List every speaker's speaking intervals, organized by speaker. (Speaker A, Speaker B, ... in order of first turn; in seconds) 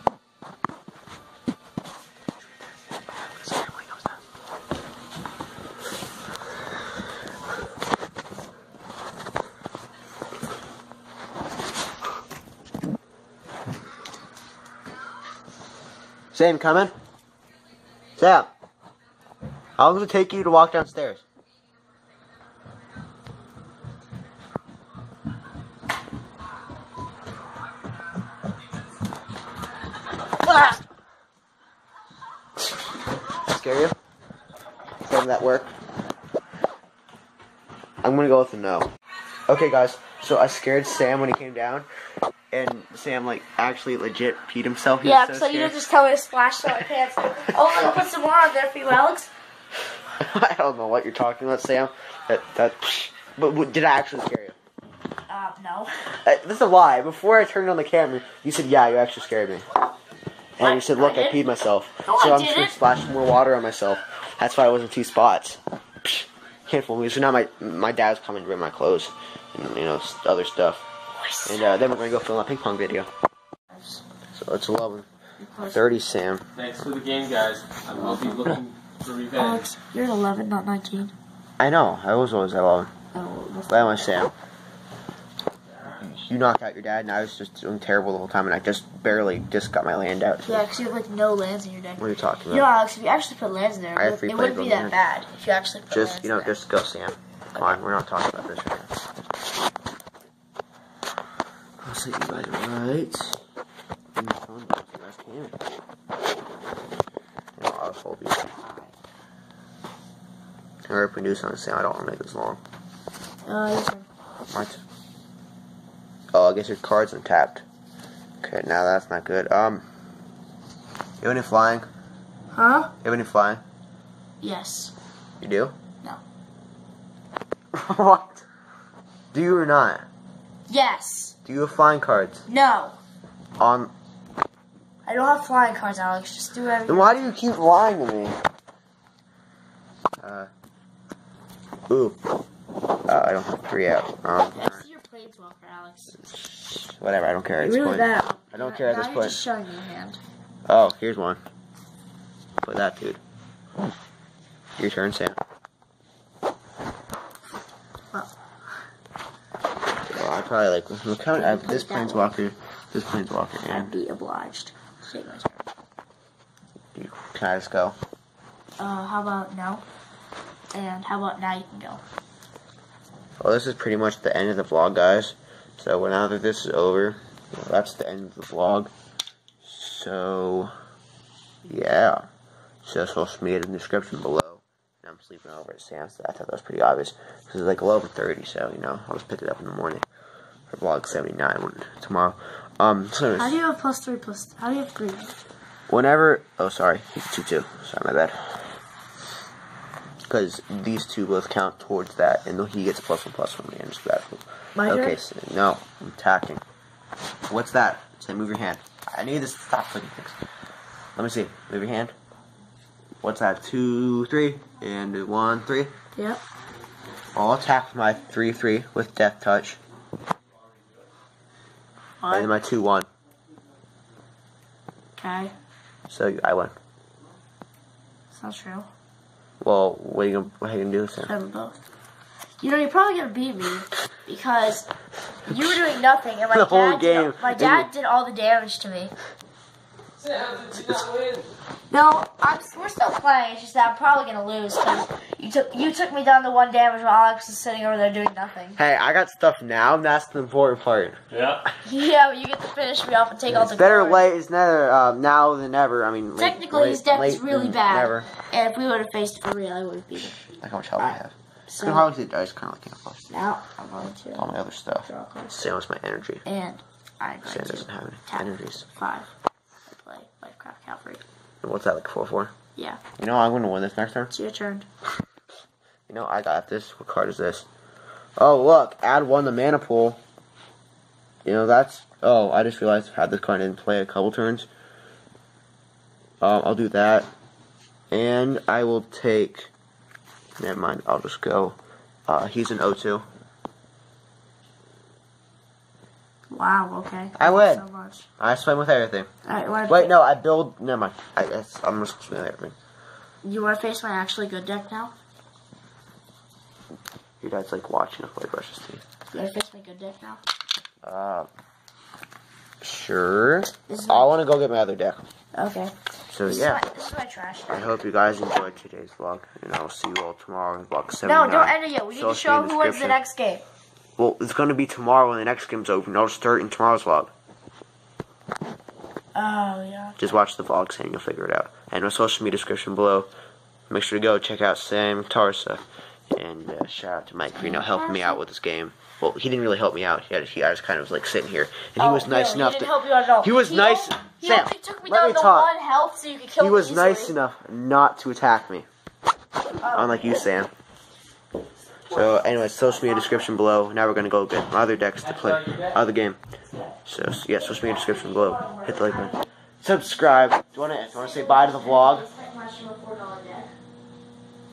Speaker A: 3.0-4.0, 16.3-16.9, 18.2-18.5, 19.8-21.2, 33.5-34.0, 35.0-35.7, 38.0-38.9, 39.5-41.9, 42.5-45.8, 50.1-54.6, 56.2-59.7, 60.6-70.9, 71.5-73.1, 74.3-75.1, 75.7-76.5, 81.6-82.9, 83.7-84.3, 85.9-90.7, 92.0-92.7, 94.0-95.0, 95.9-98.9, 101.8-103.4, 104.2-105.6, 107.6-108.6, 110.8-112.6, 114.5-114.8, 116.3-117.7, 118.4-119.8, 121.2-121.9, 123.0-123.6, 125.4-125.8, 127.7-128.4, 129.3-130.1, 131.4-132.5, 133.6-133.9, 136.9-138.4, 140.2-140.5, 141.9-142.2, 143.1-144.8, 146.6-149.4, 150.7-151.4, 152.6-153.2, 154.8-155.4, 160.1-163.9, 166.9-168.0, 173.4-178.9, 179.6-180.7, 181.7-182.3, 182.8-190.1, 190.7-193.6, 195.9-198.8, 200.3-206.6, 207.5-210.4, 211.2-212.1, 213.2-215.9, 217.3-219.8, 222.3-223.1, 226.1-226.8, 229.6-231.3, 235.5-235.8, 236.5-237.9, 248.8-251.2, 253.5-258.3, 260.5-263.3, 264.4-266.4, 267.4-268.9, 271.6-272.5, 273.2-274.3, 276.1-277.7, 278.4-280.2, 281.4-284.7, 286.4-287.3, 288.1-289.7, 290.6-293.3, 297.4-297.9, 298.4-299.3, 299.9-302.8, 307.4-309.0, 311.0-311.5, 312.8-315.2, 316.3-316.9, 317.7-323.2, 324.2-327.3, 330.2-333.3, 333.9-345.7, 346.6-348.9, 349.9-350.7, 352.1-356.4, 357.1-362.3
Speaker B: 45.0-49.3, 55.3-56.1, 60.6-61.4, 62.1-62.8, 71.2-71.8, 75.4-76.0, 78.0-78.4, 79.3-81.1, 83.1-84.1, 90.5-96.6, 108.6-108.9, 113.5-114.1, 122.5-122.9, 124.4-124.9, 130.7-131.3, 132.5-133.0, 135.1-137.4, 144.5-146.3, 147.6-150.2, 161.4-162.3, 163.7-165.7, 168.8-169.8, 170.7-172.0, 193.3-195.3, 204.8-205.2, 216.2-216.4, 222.2-222.5, 225.2-225.5, 228.3-228.9, 231.2-231.8, 232.6-234.9, 235.5-239.1, 241.9-248.8, 251.8-254.3, 256.4-260.4, 261.7-262.1, 263.3-264.4, 265.1-265.6, 266.4-269.3, 269.9-271.2, 274.3-274.9, 296.5-298.3, 299.4-300.1, 303.4-305.1, 309.3-310.4, 313.9-314.3, 315.5-318.0, 321.2-323.6, 329.4-330.2, 337.6-338.4, 342.0-347.4, 349.8-350.4, 352.5-353.5, 357.6-359.4, 360.6-363.7
Speaker C: 76.6-79.7, 240.3-241.2